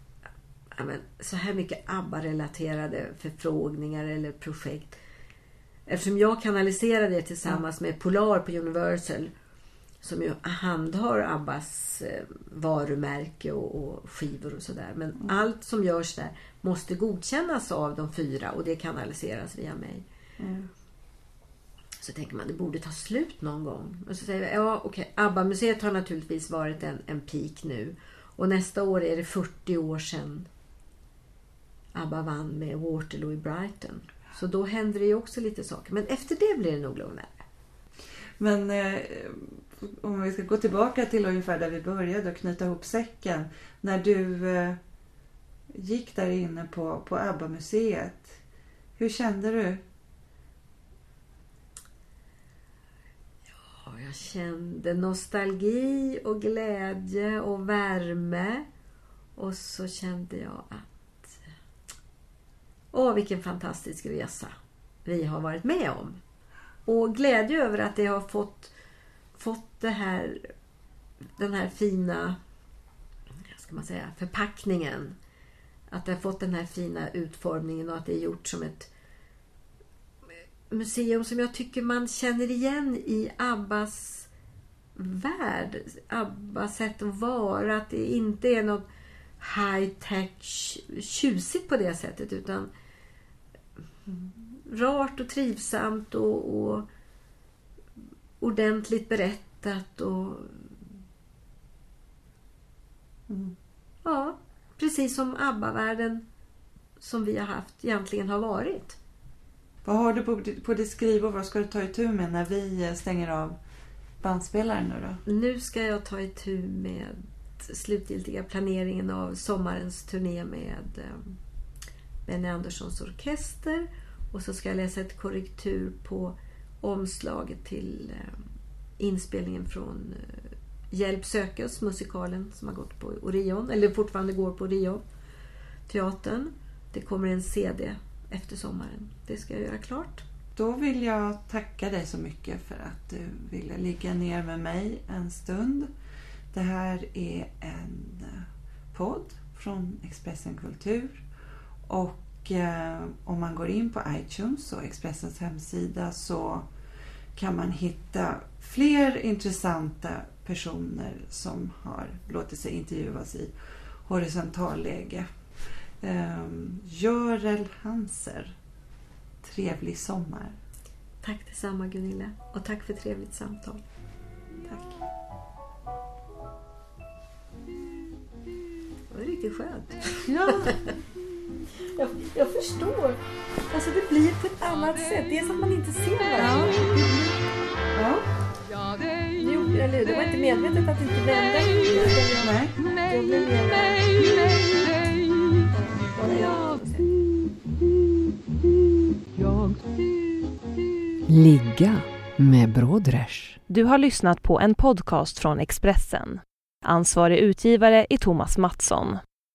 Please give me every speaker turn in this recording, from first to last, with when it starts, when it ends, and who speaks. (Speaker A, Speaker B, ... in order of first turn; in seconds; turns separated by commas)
Speaker A: 0.7-5.0, Speaker A: 5.9-9.3, Speaker A: 10.0-20.0, Speaker B: 20.4-20.7, Speaker A: 22.0-30.5, Speaker A: 31.9-37.4, Speaker B: 38.4-44.8, Speaker B: 45.7-48.4, Speaker B: 49.0-49.8, Speaker A: 53.8-58.6, Speaker A: 59.4-61.4, Speaker A: 62.9-66.2, Speaker A: 66.8-68.7, Speaker A: 69.3-70.5, Speaker A: 71.4-72.4, Speaker A: 73.5-75.2, Speaker A: 75.9-78.9, Speaker A: 80.7-84.3, Speaker A: 84.9-88.8, Speaker A: 89.4-92.7, Speaker A: 94.5-96.9, Speaker A: 98.4-100.7, Speaker B: 103.3-103.5, Speaker A: 104.0-106.2, Speaker A: 107.0-109.0, Speaker B: 109.8-113.6, Speaker B: 114.2-115.2, Speaker A: 115.2-121.3, Speaker A: 122.2-128.4, Speaker A: 129.0-135.0, Speaker A: 135.9-140.2, Speaker B: 140.6-145.9, Speaker B: 146.5-151.2, Speaker B: 151.8-156.7, Speaker B: 157.3-163.5, Speaker B: 164.0-165.3, Speaker B: 166.0-168.5, Speaker B: 169.4-170.6, Speaker A: 171.2-173.8, Speaker B: 174.6-175.0, Speaker A: 179.1-180.8, Speaker A: 181.9-186.9, Speaker B: 186.4-186.9, Speaker B: 187.9-188.2, Speaker A: 189.4-194.7, Speaker B: 191.8-192.8, Speaker C: 194.5-195.6, Speaker A: 195.7-197.1, Speaker C: 196.2-201.2, Speaker D: 201.3-203.6, Speaker E: 203.7-209.2